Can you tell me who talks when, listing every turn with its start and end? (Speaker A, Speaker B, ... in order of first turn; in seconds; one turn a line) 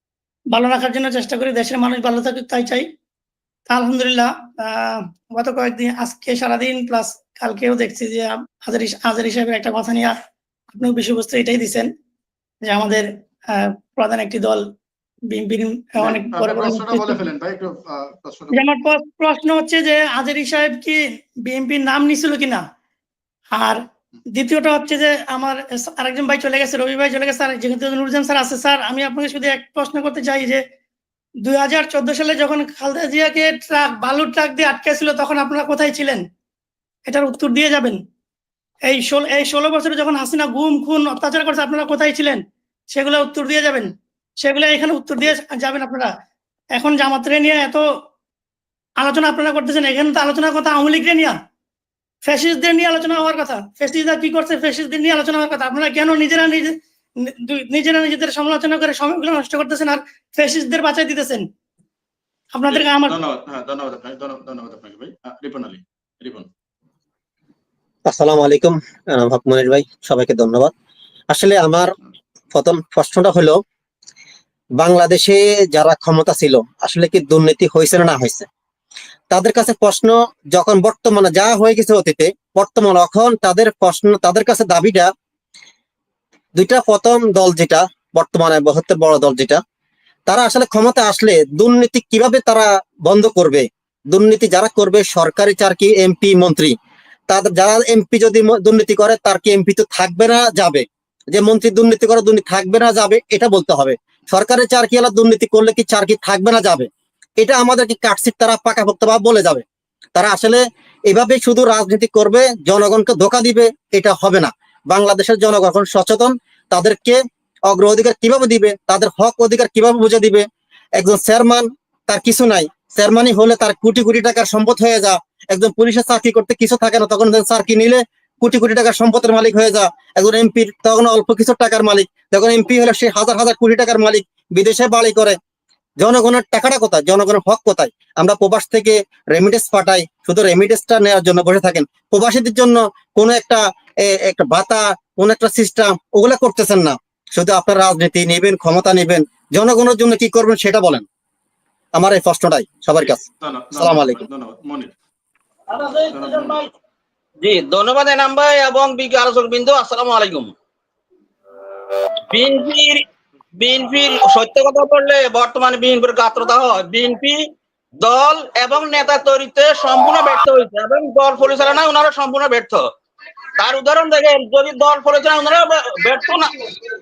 Speaker A: 0.5-2.9
Speaker A: 3.7-10.1
Speaker A: 10.7-11.9
Speaker A: 12.6-14.6
Speaker A: 15.3-17.2
Speaker B: 16.0-18.6
Speaker A: 18.5-22.6
Speaker A: 23.5-23.8
Speaker A: 24.3-30.6
Speaker A: 31.4-36.2
Speaker A: 37.1-38.0
Speaker A: 38.9-42.4
Speaker A: 42.9-46.1
Speaker A: 46.7-47.8
Speaker A: 49.0-51.3
Speaker A: 52.2-61.5
Speaker A: 62.5-63.2
Speaker B: 62.7-66.5
Speaker C: 68.1-70.7
Speaker C: 71.3-71.9
Speaker C: 72.5-73.6
Speaker C: 74.8-78.5
Speaker C: 79.3-85.1
Speaker C: 86.5-89.6
Speaker C: 90.3-96.7
Speaker C: 97.3-109.6
Speaker C: 110.1-120.4
Speaker C: 121.0-135.4
Speaker C: 136.0-151.1
Speaker C: 151.9-153.2
Speaker B: 153.0-154.9
Speaker C: 153.7-154.2
Speaker D: 155.7-156.7
Speaker B: 156.1-156.6
Speaker D: 157.4-160.5
Speaker D: 162.3-163.0
Speaker D: 163.6-167.5
Speaker D: 168.0-172.8
Speaker D: 173.6-176.6